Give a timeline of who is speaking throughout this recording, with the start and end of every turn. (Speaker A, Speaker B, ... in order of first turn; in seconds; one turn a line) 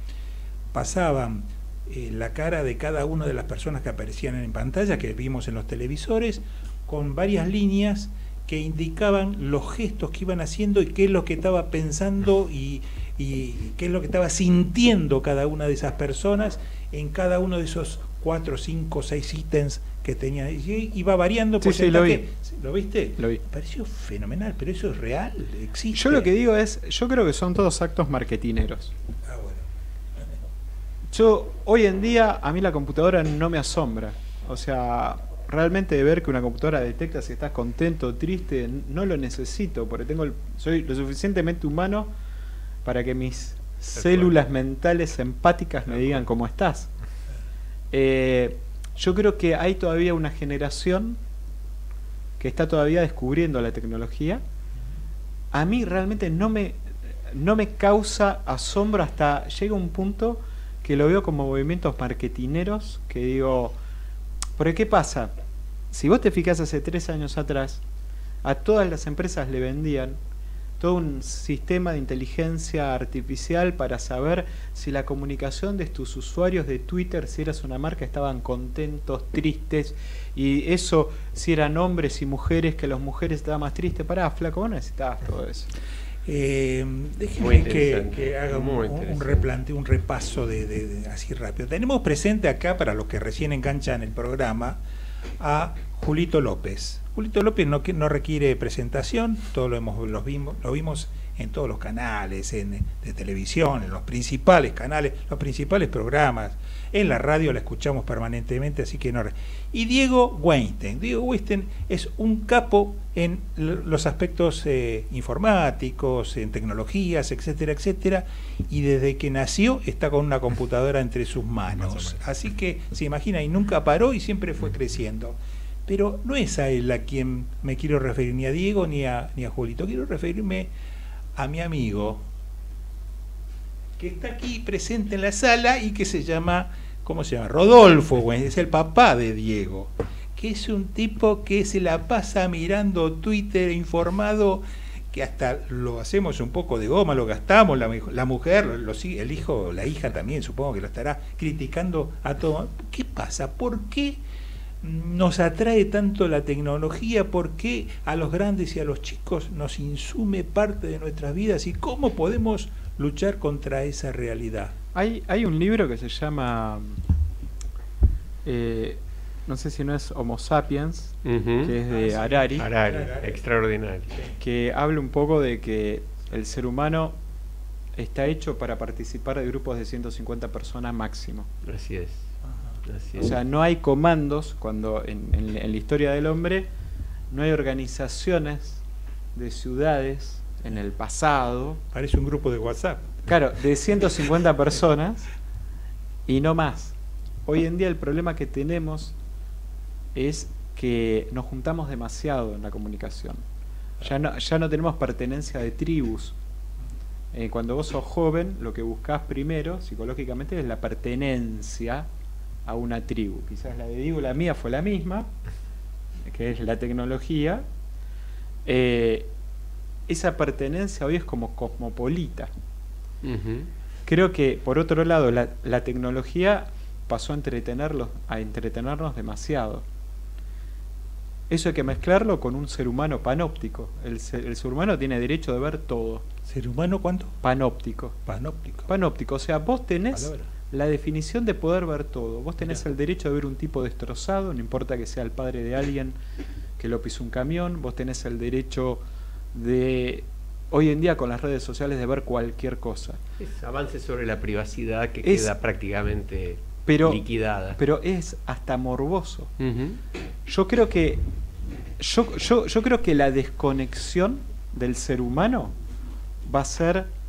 Speaker A: 0.7-26.3
Speaker B: 21.6-22.2
Speaker B: 25.9-28.9
Speaker A: 29.2-29.6
Speaker B: 31.1-42.1
Speaker B: 42.8-46.9
Speaker B: 47.9-51.2
Speaker B: 52.4-54.4
Speaker B: 55.5-63.8
Speaker B: 64.6-65.3
Speaker B: 65.9-67.8
Speaker B: 68.4-70.2
Speaker B: 70.8-85.7
Speaker A: 86.2-94.8
Speaker C: 87.4-89.5
Speaker A: 95.4-130.7
Speaker A: 131.3-132.2
Speaker A: 134.0-154.2
Speaker A: 154.8-164.7
Speaker B: 164.9-167.0
Speaker B: 168.4-172.7
Speaker C: 171.2-171.8
Speaker A: 171.9-173.4
Speaker C: 172.6-174.1
Speaker A: 174.1-174.4
Speaker B: 174.4-177.2
Speaker B: 177.9-181.5
Speaker C: 181.6-182.2
Speaker A: 182.4-182.8
Speaker C: 182.9-183.3
Speaker B: 183.2-186.7
Speaker B: 187.3-188.8
Speaker B: 189.3-191.8
Speaker A: 191.9-193.2
Speaker B: 193.3-195.3
Speaker B: 196.2-196.9
Speaker B: 197.4-199.1
Speaker B: 200.1-203.4
Speaker B: 204.0-206.3
Speaker B: 207.3-212.1
Speaker B: 212.7-215.3
Speaker B: 216.2-217.6
Speaker B: 218.7-219.3
Speaker B: 220.1-222.5
Speaker C: 223.2-223.7
Speaker B: 224.1-229.8
Speaker B: 231.5-236.2
Speaker A: 236.5-237.4
Speaker B: 237.4-238.2
Speaker A: 238.2-238.9
Speaker B: 238.9-246.2
Speaker A: 240.1-240.5
Speaker B: 246.8-249.0
Speaker B: 249.5-253.2
Speaker C: 253.4-257.8
Speaker B: 255.2-255.5
Speaker B: 256.9-257.2
Speaker B: 257.7-259.5
Speaker C: 259.6-260.0
Speaker B: 260.4-261.2
Speaker B: 262.0-265.7
Speaker B: 266.4-267.1